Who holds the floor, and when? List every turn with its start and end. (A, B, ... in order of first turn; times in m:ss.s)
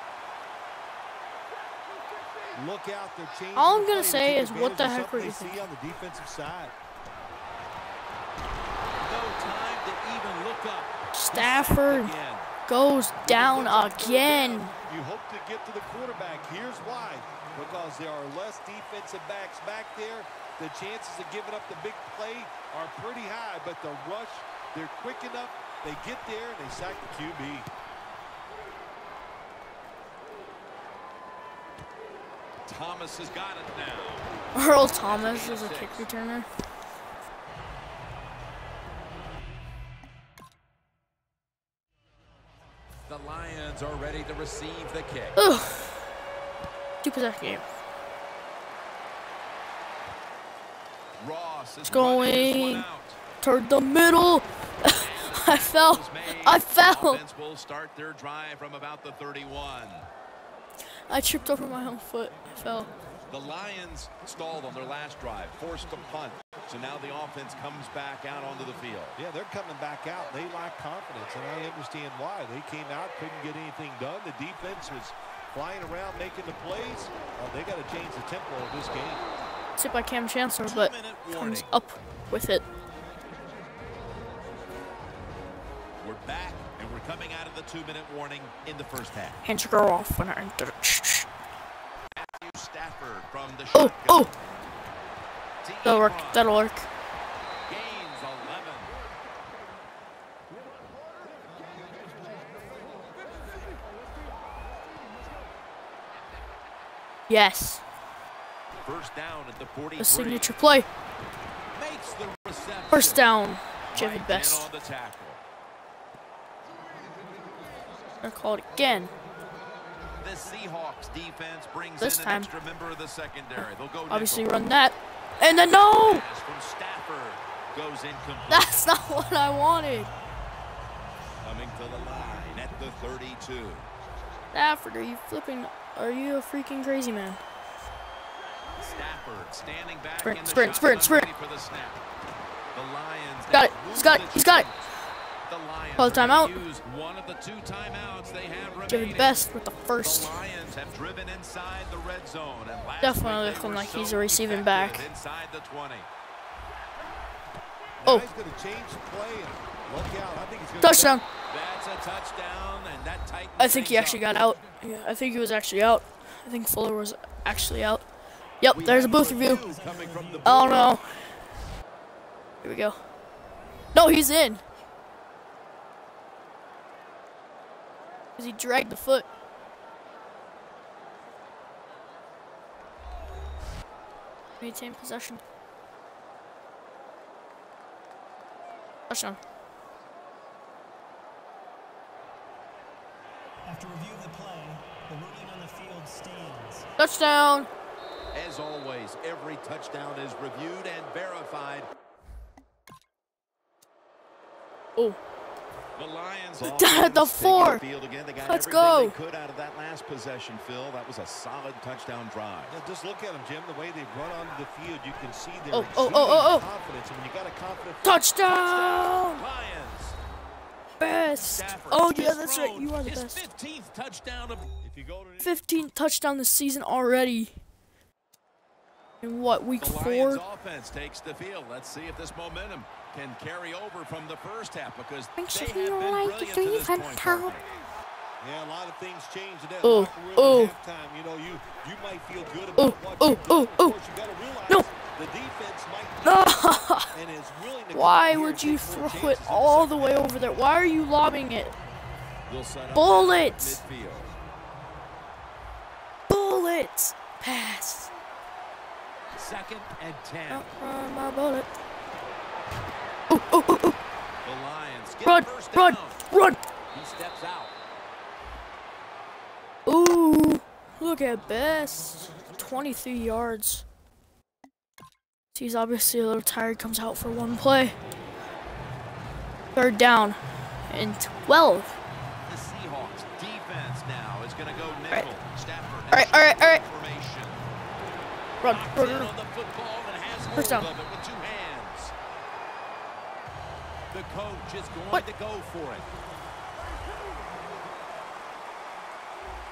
0:02.5-0:06.7 A
0:03.6-0:05.6 B
0:09.0-0:12.5 C
0:11.1-0:12.1 B
0:12.6-0:14.7 B
0:13.2-0:27.7 A
0:32.6-0:34.3 C
0:34.5-0:36.5 B
0:35.0-0:36.1 C
0:43.1-0:45.4 C
0:45.4-0:46.0 B
0:47.0-0:47.6 B
0:51.2-0:53.2 C
0:51.8-0:52.9 B
0:53.4-0:57.2 B
0:54.8-1:00.1 C
1:01.1-1:02.9 B
1:03.3-1:09.2 C
1:09.2-1:19.2 A
1:19.8-1:22.6 B
1:20.6-1:21.7 C
1:26.0-1:29.4 C
1:29.4-1:31.3 B
1:32.1-1:34.3 C
1:33.7-1:34.3 B
1:35.6-1:36.5 C
1:35.8-1:36.9 B
1:37.6-1:38.9 C
1:47.3-1:47.8 B
1:48.8-1:50.5 C
1:50.0-1:50.9 B
1:51.7-1:53.3 C
1:52.9-1:54.7 B
1:53.9-1:55.4 C
1:58.2-1:59.1 B
2:00.2-2:04.5 C
2:02.0-2:02.5 B
2:04.1-2:06.2 B
2:05.7-2:08.8 C
2:08.5-2:10.1 B
2:11.4-2:13.9 C
2:14.5-2:17.4 B
2:18.8-2:22.0 C
2:20.2-2:21.3 B
2:22.7-2:24.9 C
2:23.5-2:24.7 B
2:25.5-2:29.4 C
2:26.0-2:26.5 B
2:28.9-2:30.3 B
2:30.0-2:36.1 C
2:33.0-2:35.1 B
2:38.0-2:41.2 A
2:40.8-2:41.2 B
2:41.5-2:44.3 C
2:43.6-2:48.0 B
2:48.6-2:49.6 B
2:48.7-2:50.9 C
2:49.6-2:50.4 D
2:50.4-2:51.3 B
2:52.6-2:53.0 B
2:53.9-2:54.6 B
2:58.4-2:59.2 B
3:04.6-3:05.4 B
3:09.1-3:09.4 B
3:13.6-3:16.9 D
3:17.0-3:17.7 B
3:18.3-3:21.9 C
3:26.0-3:32.8 C
3:26.6-3:27.8 B
3:28.4-3:29.1 B
3:32.7-3:38.2 A
3:35.7-3:36.6 B
3:38.0-3:39.4 B
3:38.4-3:40.2 C
3:41.0-3:43.4 B
3:41.4-3:44.7 C
3:44.8-3:45.6 A
3:45.4-3:47.5 B
3:49.2-3:50.4 B
3:49.8-3:57.6 C
3:55.4-3:57.5 B
3:58.4-4:10.5 A
3:59.8-4:00.7 B
4:02.8-4:04.0 B
4:06.2-4:07.1 B
4:07.9-4:11.8 B
4:12.5-4:14.3 C
4:12.9-4:13.8 B
4:16.3-4:18.1 B
4:19.3-4:20.6 C
4:20.5-4:21.7 B
4:23.3-4:24.0 B
4:24.4-4:26.2 C
4:25.2-4:26.6 B
4:26.9-4:27.7 C
4:29.8-4:33.8 B
4:35.5-4:37.9 B
4:39.7-4:41.9 B
4:42.4-4:47.6 C
4:46.1-4:46.8 B
4:48.6-4:49.3 B
4:48.6-4:52.1 C
4:50.5-4:50.9 B
4:54.1-4:56.1 C